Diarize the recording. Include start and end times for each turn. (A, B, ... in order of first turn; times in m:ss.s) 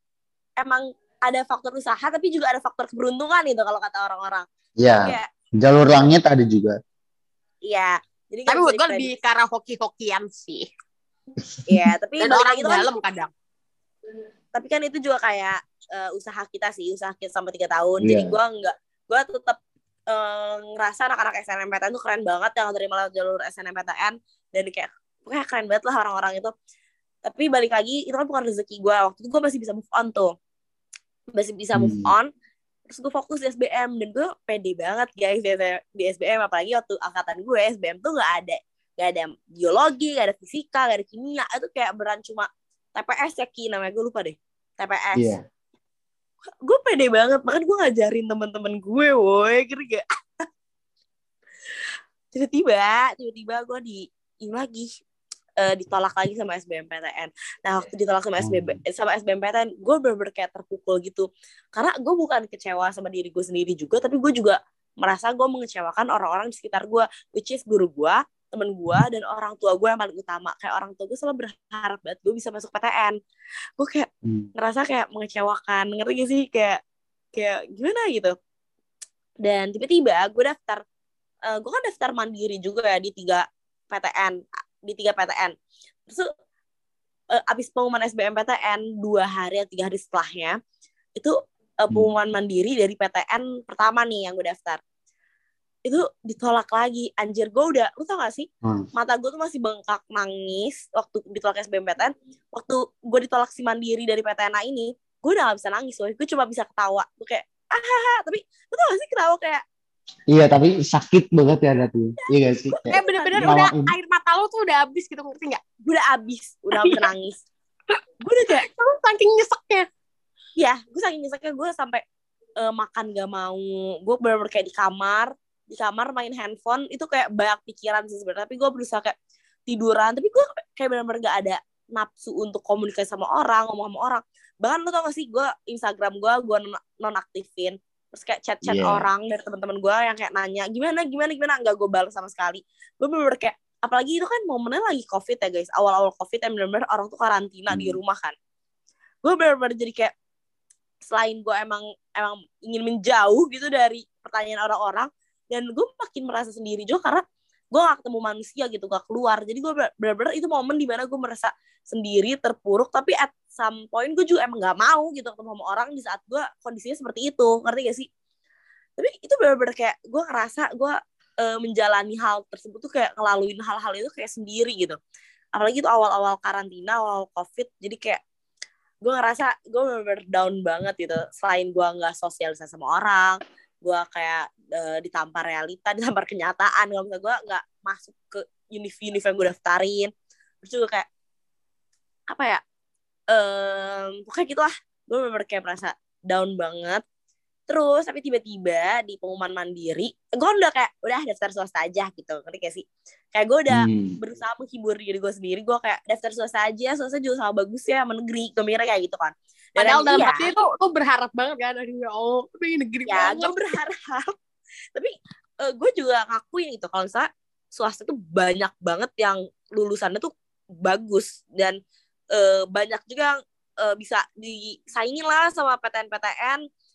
0:00.6-0:05.3 A
0:04.8-0:06.8 B
0:07.6-0:09.1 A
0:08.5-0:10.6 C
0:11.4-0:11.9 B
0:11.7-0:12.9 A
0:12.2-0:13.3 C
0:14.5-0:19.6 A
0:18.0-0:18.4 B
0:20.1-0:26.5 A
0:27.2-0:30.3 A
0:31.3-0:32.3 A
0:31.7-0:32.1 B
0:32.9-0:45.4 A
0:45.2-0:45.4 B
0:46.6-0:50.4 A
0:52.3-0:54.9 A
0:55.6-1:13.2 A
0:58.4-0:58.8 B
1:13.8-1:16.8 A
1:14.2-1:14.5 B
1:17.4-1:18.4 A
1:19.4-1:20.8 A
1:21.5-1:25.6 A
1:27.3-1:30.6 A
1:31.2-1:34.8 A
1:35.8-1:49.6 A
1:38.6-1:38.9 B
1:50.3-1:53.9 B
1:52.2-1:53.6 A
1:52.9-1:55.6 C
1:55.8-1:57.4 A
1:56.8-1:57.1 C
1:58.2-1:58.6 A
1:58.6-1:59.9 C
2:00.6-2:02.0 A
2:02.6-2:09.2 A
2:09.7-2:28.4 A
2:18.6-2:19.1 B
2:27.7-2:28.0 B
2:29.2-2:30.1 A
2:31.0-2:48.1 A
2:49.0-2:55.0 A
2:55.5-2:58.2 A
2:59.0-3:10.1 A
3:10.6-3:11.1 A
3:12.3-3:12.6 A
3:13.3-3:17.0 A
3:17.7-3:22.8 A
3:23.4-3:30.5 A
3:23.7-3:24.2 B
3:29.8-3:33.6 C
3:33.1-3:34.3 A
3:35.0-3:40.3 A
3:40.8-3:41.8 A
3:42.3-3:46.6 A